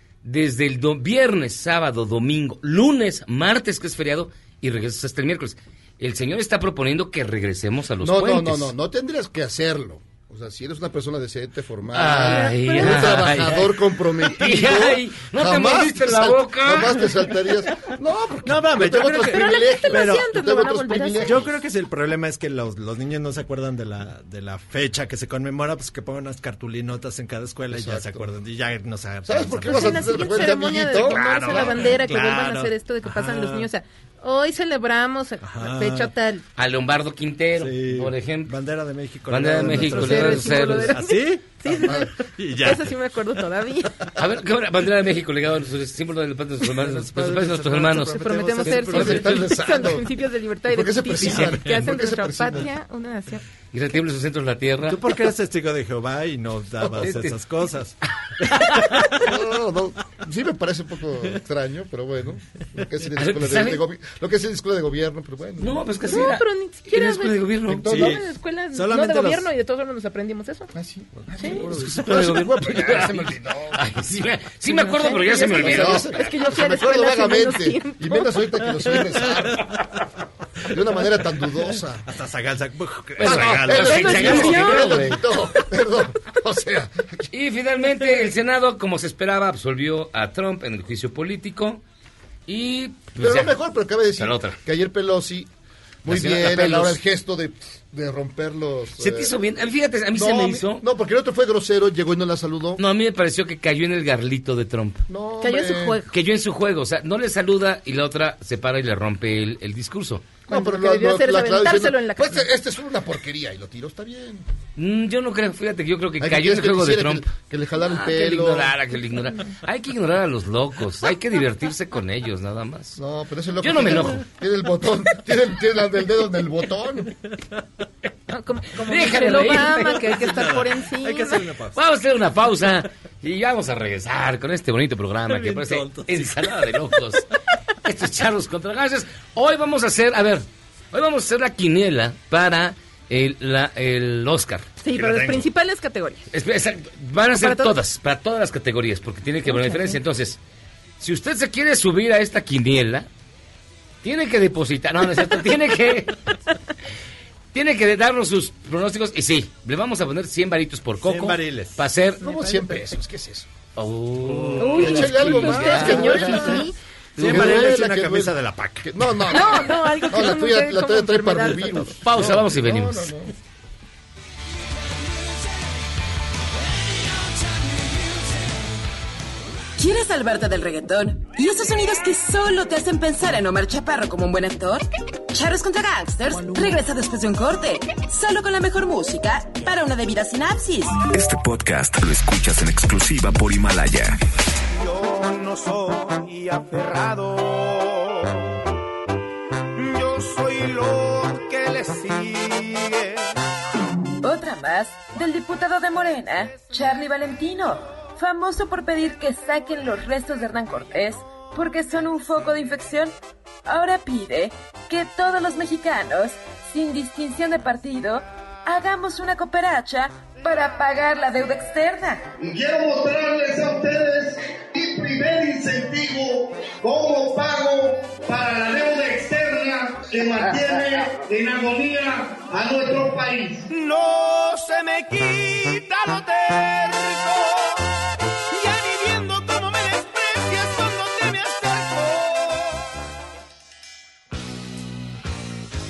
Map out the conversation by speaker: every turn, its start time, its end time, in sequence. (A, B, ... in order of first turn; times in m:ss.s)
0:00.2-0:08.7 A
0:08.0-0:21.5 B
0:11.9-0:17.3 A
0:12.2-0:13.2 C
0:18.4-0:20.3 D
0:19.1-0:21.4 C
0:21.2-0:33.7 D
0:27.7-0:28.3 B
0:29.2-0:31.8 B
0:29.7-0:36.4 C
0:35.4-0:36.1 D
0:36.6-0:38.5 A
0:37.6-0:42.9 D
0:39.3-0:41.0 A
0:39.7-0:44.0 C
0:44.2-0:49.2 A
0:46.7-0:49.4 D
0:48.1-0:53.4 C
0:48.8-0:50.1 B
0:50.7-0:52.7 B
0:51.2-0:51.7 D
0:53.7-0:55.0 A
0:54.9-0:59.1 D
0:57.0-0:57.4 A
0:58.4-0:58.8 A
0:59.2-1:05.8 B
1:03.2-1:03.8 A
1:05.6-1:07.9 A
1:06.1-1:10.7 C
1:07.7-1:08.2 B
1:07.8-1:09.5 D
1:10.7-1:13.8 B
1:11.5-1:16.2 A
1:14.7-1:18.3 C
1:15.6-1:19.8 B
1:20.7-1:22.0 B
1:21.7-1:24.8 D
1:23.2-1:25.1 A
1:23.2-1:27.2 B
1:23.8-1:25.2 C
1:27.3-1:31.8 A
1:32.5-1:33.6 A
1:33.2-1:35.5 B
1:34.2-1:34.6 A
1:36.0-1:39.4 B
1:36.1-1:37.0 A
1:39.0-1:40.8 A
1:40.2-1:42.8 B
1:42.8-1:45.1 A
1:45.1-1:46.0 B
1:45.4-1:46.1 C
1:46.1-1:50.3 A
1:50.5-1:52.4 C
1:50.5-1:54.4 B
1:54.8-2:03.0 A
1:56.2-1:58.7 B
2:03.0-2:07.1 B
2:03.6-2:04.2 A
2:08.3-2:11.4 C
2:08.8-2:10.2 A
2:10.1-2:11.8 D
2:11.8-2:17.3 A
2:15.3-2:16.6 D
2:17.8-2:24.7 A
2:24.8-2:26.3 C
2:24.9-2:25.5 D
2:26.3-2:30.4 A
2:27.4-2:27.7 C
2:29.5-2:30.0 C
2:31.0-2:33.1 A
2:34.0-2:36.3 A
2:37.5-2:42.2 A
2:41.0-2:41.8 D
2:42.2-2:43.5 B
2:42.2-2:42.7 C
2:43.8-2:46.6 A
2:44.2-2:46.6 D
2:44.6-2:46.8 C
2:44.6-2:46.7 B
2:47.2-2:47.8 A
2:47.2-2:49.2 D
2:47.2-2:53.3 B
2:49.3-2:52.0 C
2:52.0-2:53.1 A
2:55.0-2:55.7 E
2:56.8-2:58.4 E
2:59.8-3:11.0 F
3:11.0-3:14.2 G
3:14.7-3:18.5 E
3:19.8-3:23.4 E
3:24.2-3:42.3 F
3:42.4-3:53.6 H
3:53.7-3:58.0 E
3:58.5-4:02.9 E